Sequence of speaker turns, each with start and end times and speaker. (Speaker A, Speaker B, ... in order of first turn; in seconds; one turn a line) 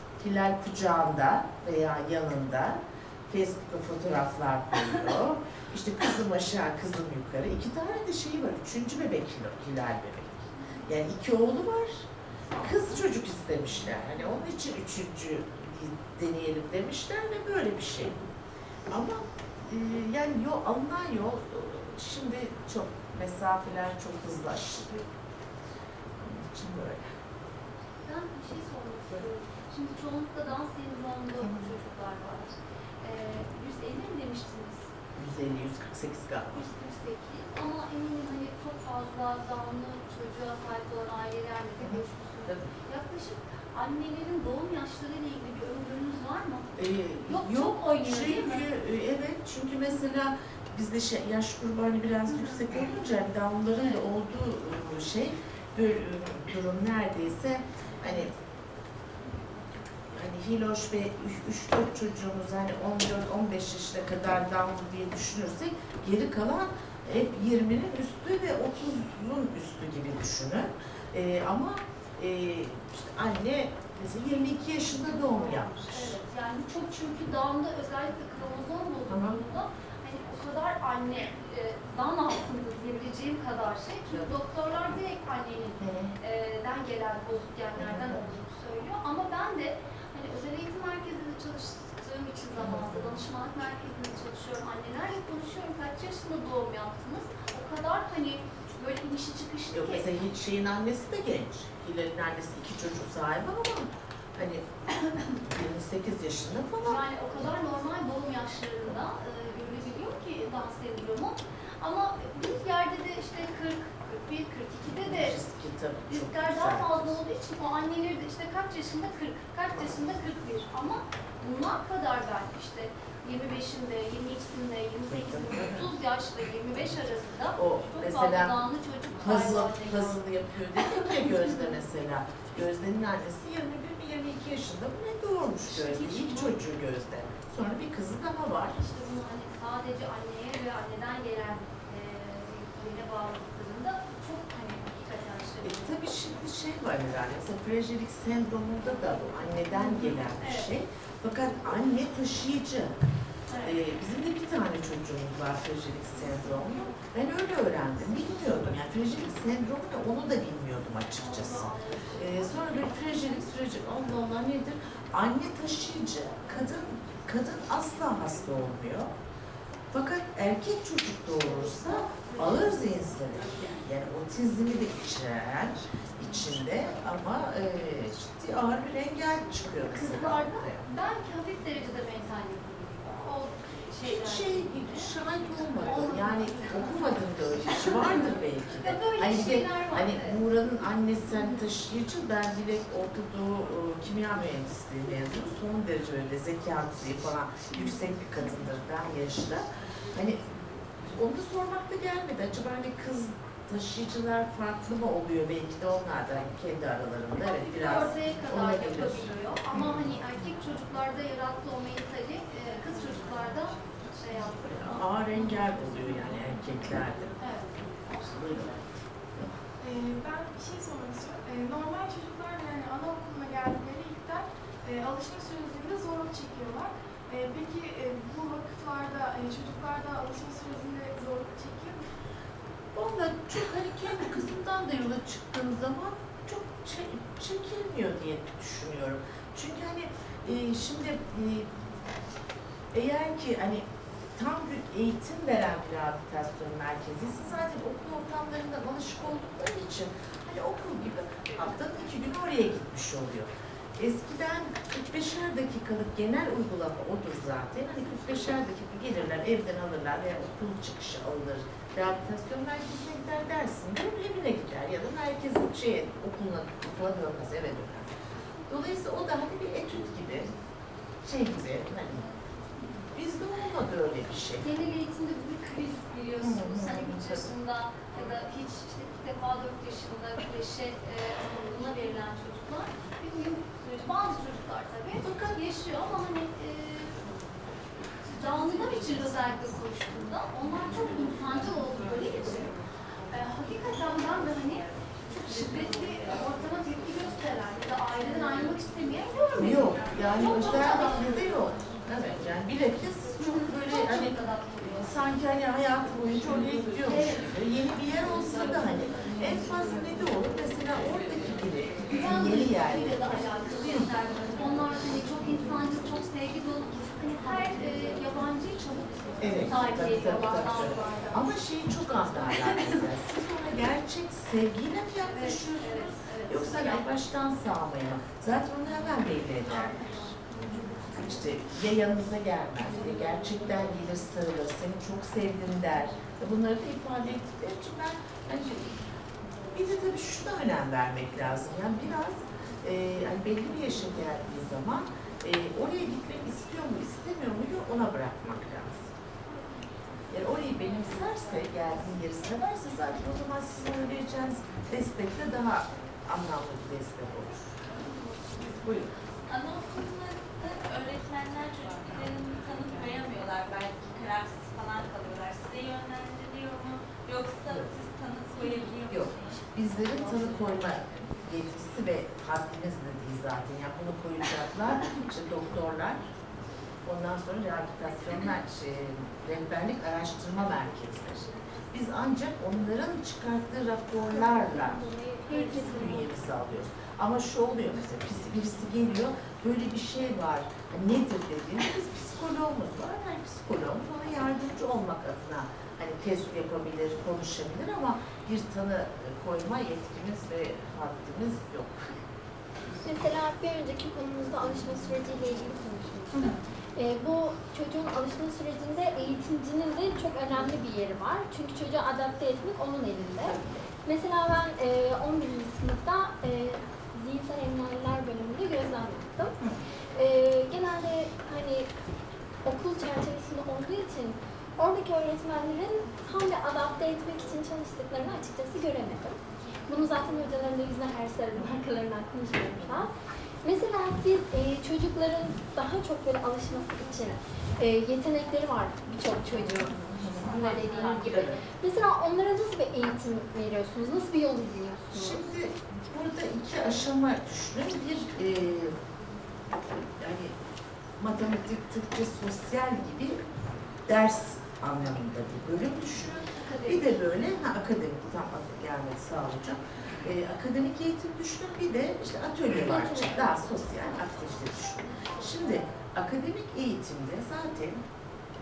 Speaker A: 0.2-18.2
Speaker A: 18.9-25.1
Speaker A: 26.2-27.1
Speaker B: 28.0-34.9
Speaker A: 35.2-36.7
Speaker B: 36.5-48.7
Speaker A: 41.8-42.6
Speaker A: 46.8-58.3
Speaker A: 60.1-76.2
Speaker B: 75.0-100.1
Speaker A: 79.1-79.4
Speaker A: 85.8-86.1
Speaker A: 87.8-88.2
Speaker A: 92.6-93.2
Speaker A: 99.7-104.7
Speaker A: 105.3-107.0
Speaker B: 106.8-115.4
Speaker A: 115.0-117.2
Speaker B: 116.1-130.2
Speaker A: 125.1-125.8
Speaker A: 127.6-128.6
Speaker A: 129.2-138.8
Speaker B: 135.7-136.6
Speaker B: 138.8-145.9
Speaker A: 145.6-153.0
Speaker B: 149.8-150.7
Speaker B: 153.5-153.8
Speaker A: 153.6-169.1
Speaker B: 161.2-163.4
Speaker A: 169.9-180.8
Speaker B: 171.6-172.8
Speaker B: 179.9-185.1
Speaker A: 184.0-200.5
Speaker B: 185.8-190.4
Speaker A: 201.1-210.0
Speaker B: 207.4-214.8
Speaker A: 214.6-217.4
Speaker B: 217.4-218.6
Speaker A: 218.2-218.8
Speaker C: 219.8-232.1
Speaker A: 232.9-241.7
Speaker A: 242.9-268.1
Speaker A: 268.7-270.5
Speaker A: 271.2-272.3
Speaker A: 273.1-274.7
Speaker B: 274.6-287.3
Speaker A: 276.4-277.5
Speaker A: 285.2-285.6
Speaker B: 288.2-301.5
Speaker A: 299.6-304.4
Speaker B: 303.4-305.4
Speaker A: 305.0-314.1
Speaker B: 307.0-307.5
Speaker B: 312.1-321.5
Speaker A: 319.4-330.4
Speaker B: 325.2-327.1
Speaker B: 329.7-331.1
Speaker A: 331.0-339.0
Speaker A: 339.7-349.1
Speaker A: 350.3-357.6
Speaker A: 358.6-359.1
Speaker D: 359.5-369.7
Speaker A: 369.1-376.2
Speaker D: 370.2-370.8
Speaker A: 377.1-402.1
Speaker E: 384.6-386.2
Speaker E: 403.0-419.6
Speaker A: 413.4-413.8
Speaker E: 420.1-421.9
Speaker E: 422.6-433.1
Speaker E: 433.6-445.4
Speaker A: 439.7-441.6
Speaker A: 445.1-449.0
Speaker A: 450.2-450.6
Speaker A: 451.2-453.4
Speaker A: 454.1-468.0
Speaker B: 456.6-457.0
Speaker E: 462.8-464.1